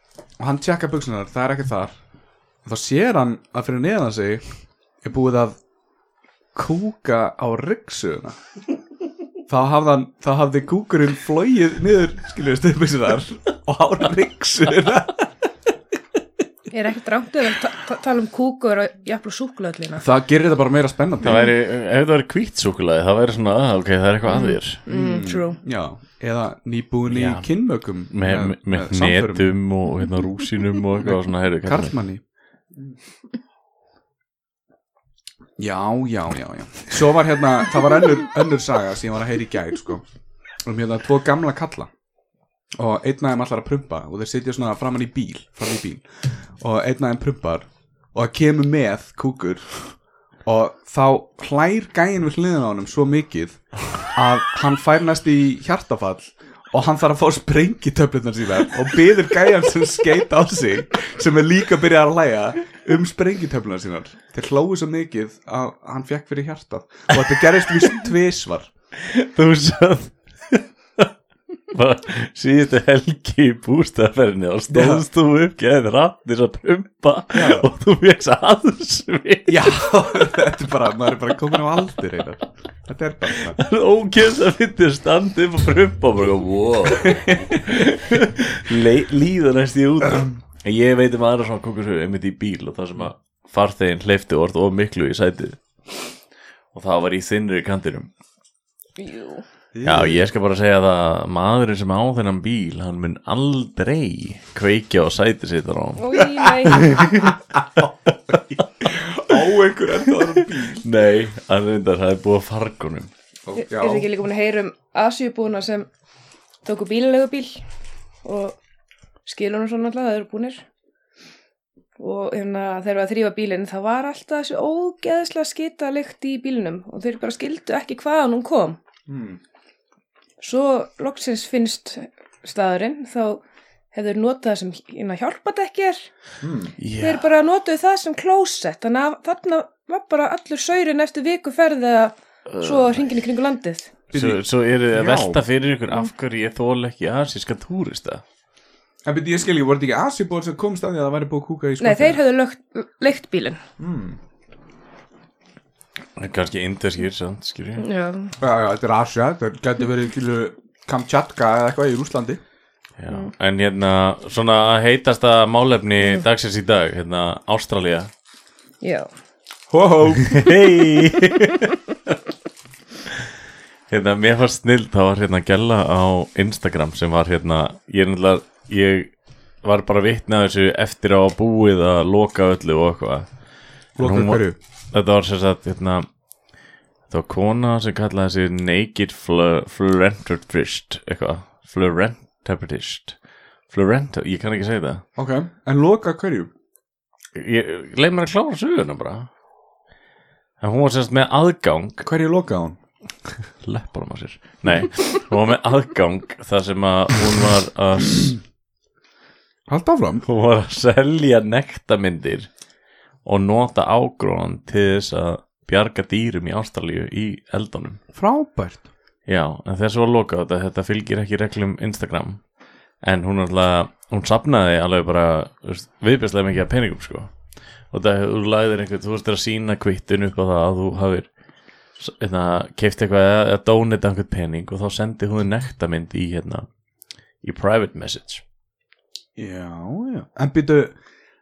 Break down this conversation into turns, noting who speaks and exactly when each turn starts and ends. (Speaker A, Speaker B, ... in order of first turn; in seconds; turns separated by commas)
Speaker A: 0.4-2.0, Speaker A: 2.6-4.5, Speaker A: 5.0-5.6, Speaker A: 6.5-8.4, Speaker A: 9.5-15.3, Speaker B: 16.7-20.0, Speaker A: 20.0-21.5, Speaker C: 21.2-24.8, Speaker B: 24.3-25.6, Speaker A: 24.9-29.4, Speaker C: 27.1-27.5, Speaker C: 28.1-31.9, Speaker A: 31.0-32.2, Speaker A: 35.6-40.0, Speaker A: 40.6-41.9, Speaker A: 42.8-49.8, Speaker A: 50.5-68.7, Speaker C: 69.0-71.1, Speaker C: 71.7-80.1, Speaker A: 74.7-75.0, Speaker A: 77.3-77.7, Speaker A: 79.5-83.6, Speaker C: 83.5-95.6, Speaker A: 87.0-87.4, Speaker A: 90.0-90.3, Speaker C: 96.7-98.1, Speaker B: 99.0-99.5, Speaker A: 99.7-100.2, Speaker C: 99.8-107.8, Speaker B: 106.0-107.0, Speaker A: 106.8-110.8, Speaker C: 108.3-109.3, Speaker C: 110.1-113.1, Speaker A: 113.5-114.1, Speaker B: 113.5-115.9, Speaker B: 116.7-117.6, Speaker B: 118.2-118.6, Speaker B: 119.2-120.7, Speaker B: 122.0-128.8, Speaker A: 129.1-129.4, Speaker B: 130.4-133.4, Speaker B: 133.9-136.1, Speaker A: 136.4-136.8, Speaker C: 136.8-137.3, Speaker B: 137.0-143.9, Speaker C: 142.5-143.0, Speaker A: 144.1-145.4, Speaker C: 144.1-148.2, Speaker A: 149.1-152.2, Speaker B: 151.8-153.6, Speaker A: 153.8-154.2, Speaker C: 156.2-157.9, Speaker B: 157.8-158.3, Speaker A: 158.4-162.4, Speaker C: 163.0-168.1, Speaker B: 168.8-169.1, Speaker A: 169.7-170.5, Speaker C: 170.2-171.8, Speaker C: 173.9-179.1, Speaker C: 179.6-183.3, Speaker A: 184.0-184.6, Speaker C: 184.0-186.1, Speaker C: 187.1-193.2, Speaker C: 193.7-195.0, Speaker A: 195.2-196.5, Speaker C: 197.3-199.3, Speaker C: 200.6-202.1, Speaker A: 202.0-202.8, Speaker C: 203.6-208.4, Speaker A: 209.7-210.3, Speaker C: 210.3-212.5, Speaker C: 213.2-218.0, Speaker A: 218.1-218.9, Speaker C: 219.3-222.4, Speaker C: 223.0-227.3, Speaker C: 227.9-231.3, Speaker C: 232.0-236.7, Speaker C: 237.4-238.4, Speaker A: 239.4-241.0